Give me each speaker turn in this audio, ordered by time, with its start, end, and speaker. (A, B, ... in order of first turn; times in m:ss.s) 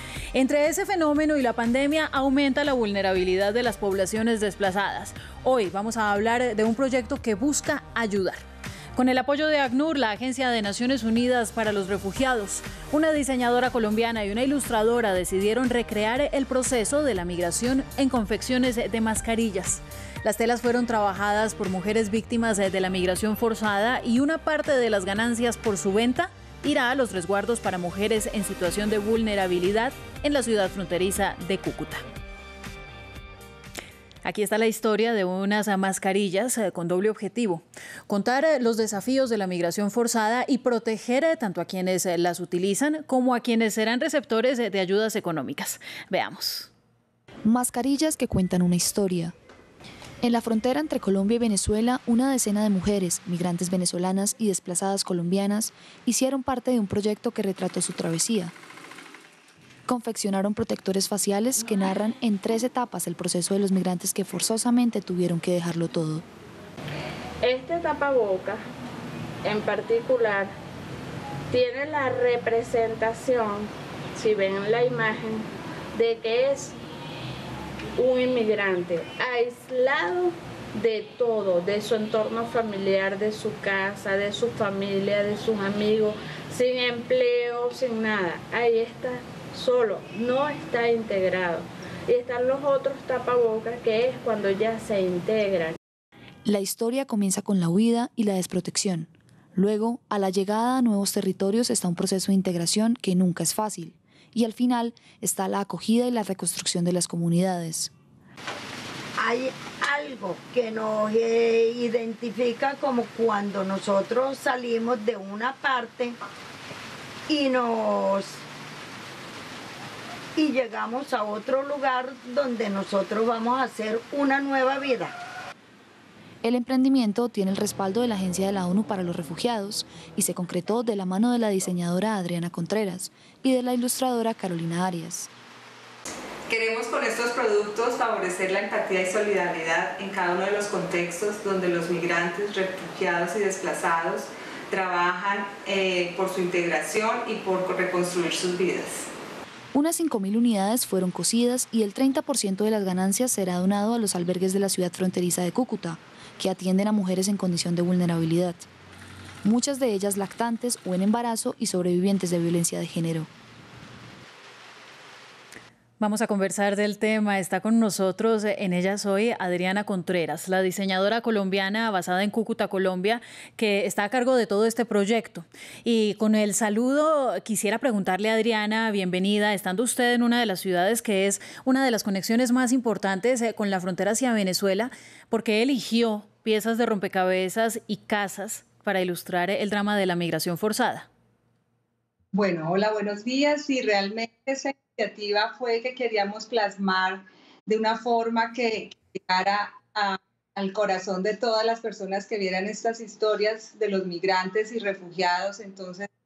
0:00.3-0:08.4 A
0:08.9-0:32.0 A
0:34.2-0:46.7 A
0:47.4-0:49.3 B
0:50.2-0:58.5 B
0:59.8-1:06.2 B
1:07.4-1:08.6 C
1:09.4-1:10.5 C
1:11.5-1:16.7 C
1:18.0-1:35.8 C
1:36.4-1:47.9 B
1:49.2-1:56.1 D
1:57.3-1:58.4 D
2:00.4-2:05.2 D
2:06.4-2:15.3 B
2:16.5-2:29.1 E
2:29.7-2:38.6 B
2:39.4-2:43.3 B
2:46.0-3:11.1 A
3:12.3-3:26.1 E